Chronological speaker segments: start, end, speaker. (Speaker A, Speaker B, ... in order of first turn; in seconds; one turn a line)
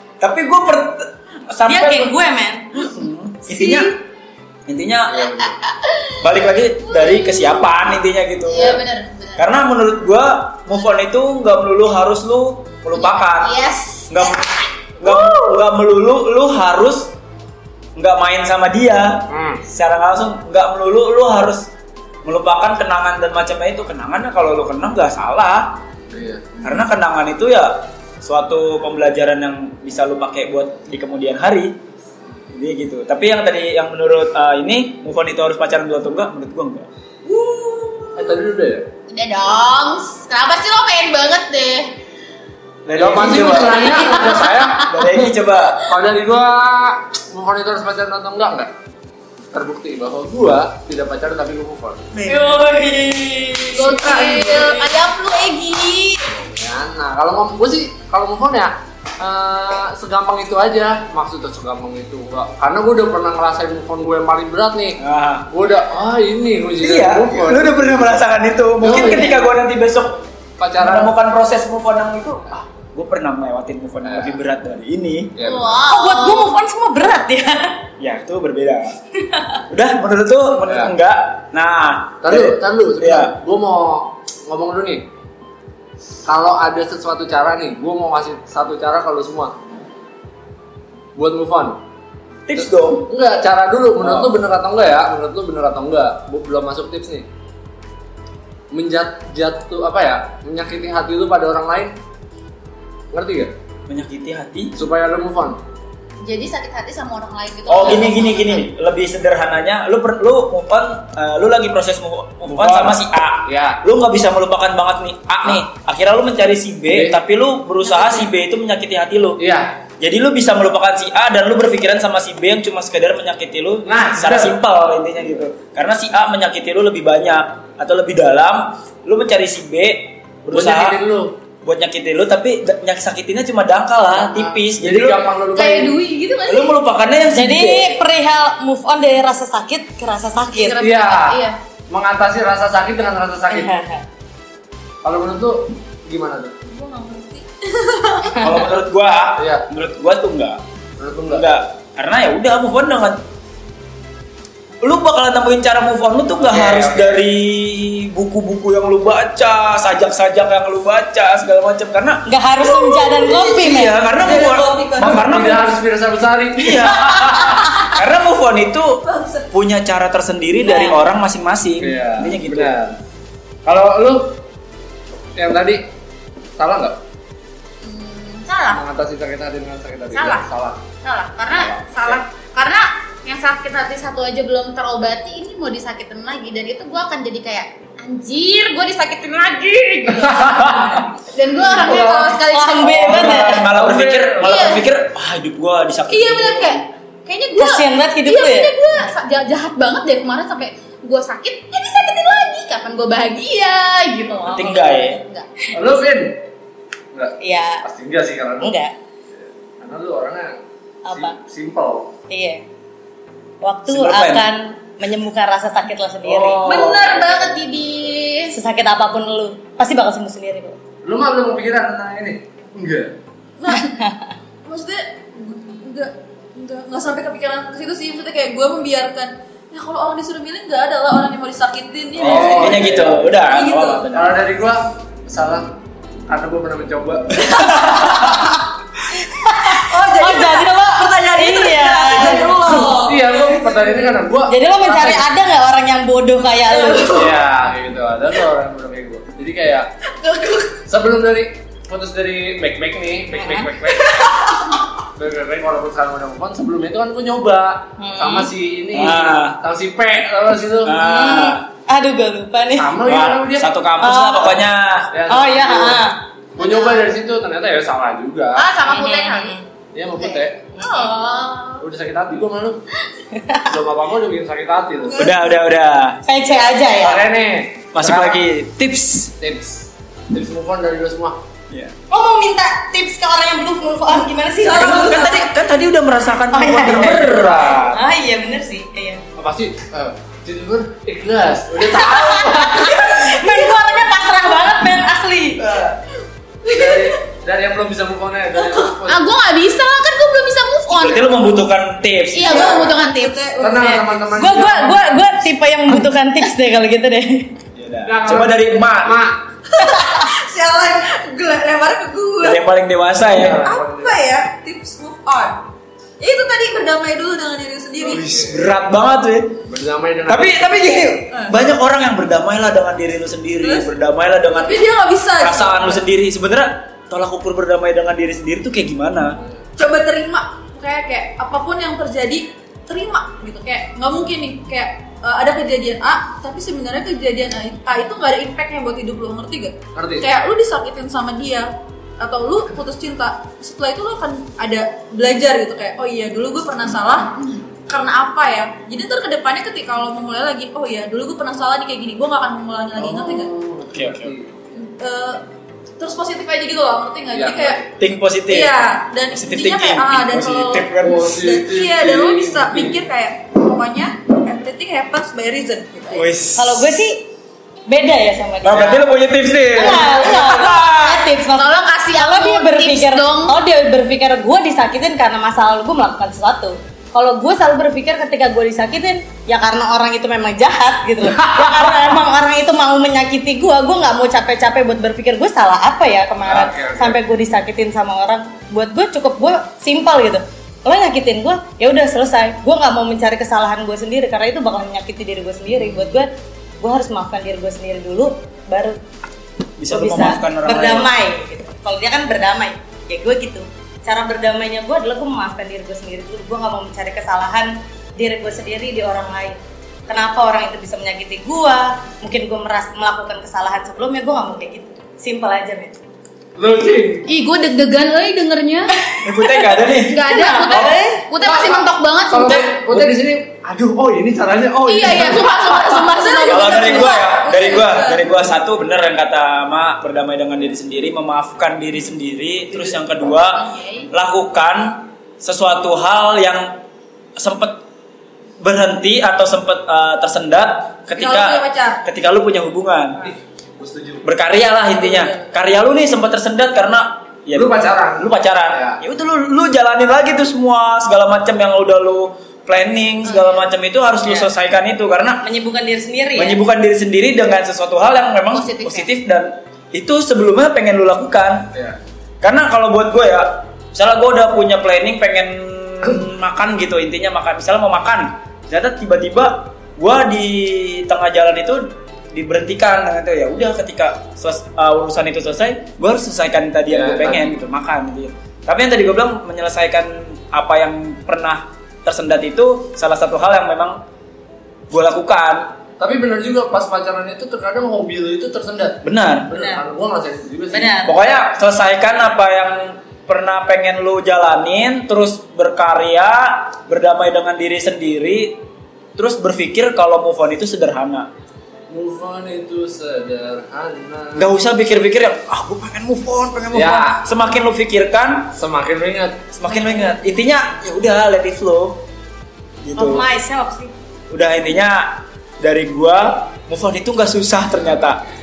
Speaker A: 0.2-2.2
Speaker B: 1.7-2.8
Speaker A: 2.7-4.0
Speaker A: 4.7-5.4
Speaker C: 5.1-5.6
Speaker D: 5.7-6.2
Speaker A: 6.2-8.8
Speaker D: 6.9-7.7
Speaker D: 8.5-9.5
Speaker A: 9.4-14.5
Speaker D: 12.9-14.6
Speaker A: 15.0-17.1
Speaker A: 18.0-21.7
Speaker C: 19.3-19.6
Speaker A: 22.2-25.8
Speaker C: 26.1-26.6
Speaker A: 26.6-31.8
Speaker A: 32.5-36.9
Speaker E: 37.3-38.0
Speaker C: 38.1-38.9
Speaker D: 39.1-41.9
Speaker A: 42.9-44.1
Speaker C: 43.0-45.2
Speaker D: 44.0-44.9
Speaker A: 44.9-45.9
Speaker C: 45.9-48.7
Speaker C: 49.5-52.0
Speaker E: 52.1-52.7
Speaker B: 52.3-54.0
Speaker D: 53.7-56.4
Speaker E: 53.9-54.8
Speaker C: 56.5-68.1
Speaker A: 65.0-65.5
Speaker A: 66.8-70.3
Speaker C: 68.8-69.4
Speaker C: 70.6-71.1
Speaker A: 70.8-75.3
Speaker C: 74.0-74.4
Speaker C: 75.4-75.8
Speaker D: 75.4-76.5
Speaker B: 75.9-77.8
Speaker A: 78.0-79.0
Speaker A: 79.7-83.3
Speaker C: 80.7-80.9
Speaker C: 82.2-85.1
Speaker C: 86.2-89.6
Speaker C: 91.2-91.8
Speaker A: 92.5-93.1
Speaker C: 93.1-97.3
Speaker A: 94.0-94.4
Speaker C: 98.7-102.0
Speaker C: 103.1-103.5
Speaker A: 103.9-104.7
Speaker C: 104.8-105.6
Speaker D: 106.2-108.7
Speaker A: 107.7-119.4
Speaker C: 112.5-113.8
Speaker C: 116.9-117.2
Speaker C: 119.4-119.7
Speaker A: 120.0-131.0
Speaker C: 123.8-124.5
Speaker C: 130.5-131.3
Speaker A: 131.6-135.2
Speaker C: 134.1-136.0
Speaker D: 135.5-136.8
Speaker A: 136.5-138.0
Speaker B: 137.3-140.8
Speaker D: 140.5-141.6
Speaker C: 140.8-143.7
Speaker B: 143.5-144.0
Speaker C: 145.0-146.6
Speaker E: 146.7-148.5
Speaker A: 148.4-150.6
Speaker C: 149.4-149.7
Speaker C: 151.0-151.5
Speaker A: 151.3-153.2
Speaker A: 154.8-162.3
Speaker C: 156.4-157.2
Speaker B: 162.3-164.1
Speaker E: 162.9-163.6
Speaker A: 163.4-165.7
Speaker E: 164.1-165.2
Speaker C: 165.0-167.7
Speaker A: 166.6-172.8
Speaker E: 169.1-169.5
Speaker B: 170.6-171.1
Speaker C: 171.8-173.0
Speaker C: 173.7-174.4
Speaker C: 175.4-175.9
Speaker C: 176.6-177.0
Speaker D: 177.8-178.8
Speaker C: 178.7-180.9
Speaker D: 180.1-180.5
Speaker D: 181.0-193.5
Speaker C: 181.5-182.2
Speaker C: 190.1-191.1
Speaker E: 191.6-192.4
Speaker B: 192.5-193.7
Speaker A: 192.8-196.8
Speaker C: 193.7-194.5
Speaker D: 194.4-194.8
Speaker D: 196.1-205.5
Speaker B: 197.6-198.9
Speaker A: 204.5-205.2
Speaker C: 205.7-206.5
Speaker C: 207.1-208.8
Speaker B: 207.4-207.8
Speaker B: 208.6-208.9
Speaker C: 209.4-212.2
Speaker B: 211.1-211.4
Speaker B: 212.3-212.6
Speaker B: 213.6-216.8
Speaker A: 213.9-214.5
Speaker C: 216.2-217.5
Speaker D: 216.6-218.6
Speaker B: 218.5-220.8
Speaker C: 221.0-223.2
Speaker E: 223.6-223.9
Speaker B: 223.7-224.2
Speaker E: 224.7-234.1
Speaker C: 232.2-233.3
Speaker A: 232.2-234.4
Speaker C: 234.1-235.8
Speaker C: 236.3-238.0
Speaker A: 237.5-238.1
Speaker B: 239.3-242.9
Speaker E: 239.5-244.1
Speaker C: 242.4-245.3
Speaker B: 244.5-247.3
Speaker E: 246.7-247.3
Speaker C: 247.1-249.9
Speaker E: 250.2-250.8
Speaker C: 250.9-254.3
Speaker B: 253.4-253.7
Speaker E: 254.0-254.7
Speaker C: 255.1-261.0
Speaker B: 258.0-258.5
Speaker A: 258.9-259.6
Speaker A: 260.8-261.6
Speaker B: 260.9-263.0
Speaker C: 262.8-263.8
Speaker A: 263.1-265.1
Speaker B: 264.0-264.6
Speaker C: 265.1-266.0
Speaker B: 265.3-266.2
Speaker C: 266.6-268.7
Speaker D: 266.6-267.0
Speaker D: 268.6-269.6
Speaker B: 268.9-269.6
Speaker C: 269.9-270.7
Speaker D: 270.2-271.9
Speaker B: 270.8-271.1
Speaker C: 271.8-272.8
Speaker B: 273.4-273.7
Speaker C: 273.6-275.3
Speaker E: 275.1-275.4
Speaker A: 275.1-276.2
Speaker B: 276.3-277.3
Speaker C: 276.9-278.4
Speaker A: 277.9-279.3
Speaker C: 279.4-281.4
Speaker A: 281.7-282.0
Speaker B: 282.1-285.3
Speaker E: 284.6-285.5
Speaker A: 284.7-287.9
Speaker B: 286.5-287.4
Speaker C: 287.0-288.0
Speaker B: 287.9-289.2
Speaker C: 289.4-293.3
Speaker B: 291.8-295.7
Speaker E: 293.6-293.9
Speaker A: 295.6-296.0
Speaker E: 296.6-297.1
Speaker C: 296.7-299.2
Speaker D: 299.1-301.5
Speaker A: 300.9-302.9
Speaker D: 302.3-303.5
Speaker E: 302.4-305.1
Speaker C: 303.6-305.1
Speaker B: 303.8-307.5
Speaker A: 307.8-309.2
Speaker C: 308.0-309.5
Speaker E: 309.7-312.6
Speaker A: 312.4-313.7
Speaker C: 313.3-314.2
Speaker E: 313.6-315.7
Speaker E: 316.2-318.2
Speaker C: 318.0-318.8
Speaker A: 318.1-319.6
Speaker C: 319.7-320.8
Speaker A: 320.3-324.9
Speaker E: 323.6-323.9
Speaker E: 324.5-326.0
Speaker A: 325.4-329.4
Speaker E: 329.8-347.4
Speaker C: 339.9-340.3
Speaker E: 347.9-353.5
Speaker C: 353.0-354.8
Speaker A: 353.9-354.3
Speaker E: 354.8-355.4
Speaker E: 356.0-357.8
Speaker C: 357.3-357.9
Speaker A: 358.0-361.4
Speaker E: 358.5-366.2
Speaker C: 361.0-363.0
Speaker A: 366.1-367.0
Speaker B: 366.6-367.3
Speaker B: 367.9-369.0
Speaker A: 368.6-371.2
Speaker B: 369.7-399.0
Speaker D: 370.5-370.9
Speaker D: 371.4-373.6
Speaker C: 381.4-382.0
Speaker C: 386.4-387.2
Speaker A: 399.8-401.1
Speaker B: 399.9-416.0
Speaker C: 416.6-417.3
Speaker D: 417.3-419.0
Speaker B: 419.1-421.3
Speaker A: 419.2-421.0
Speaker D: 420.1-422.8
Speaker C: 421.4-426.0
Speaker A: 422.9-423.2
Speaker D: 424.9-427.2
Speaker E: 425.8-428.5
Speaker A: 426.4-436.8
Speaker D: 433.6-434.1
Speaker A: 437.4-437.8
Speaker A: 438.6-443.2
Speaker E: 441.2-442.0
Speaker C: 443.2-444.3
Speaker A: 444.2-455.4
Speaker E: 445.0-445.4
Speaker C: 447.6-449.0
Speaker D: 453.2-453.7
Speaker B: 455.4-456.6
Speaker A: 456.4-461.7
Speaker D: 458.5-459.1
Speaker A: 462.4-484.0
Speaker C: 476.9-477.6
Speaker A: 484.9-485.8
Speaker C: 486.0-491.1
Speaker A: 489.0-489.5
Speaker B: 490.7-491.1
Speaker A: 491.0-498.6
Speaker A: 499.2-501.3
Speaker C: 501.9-504.5
Speaker A: 504.4-508.5
Speaker C: 506.7-507.3
Speaker C: 508.6-509.5
Speaker A: 509.6-512.0
Speaker A: 512.8-513.3
Speaker B: 513.0-513.9
Speaker A: 514.3-518.2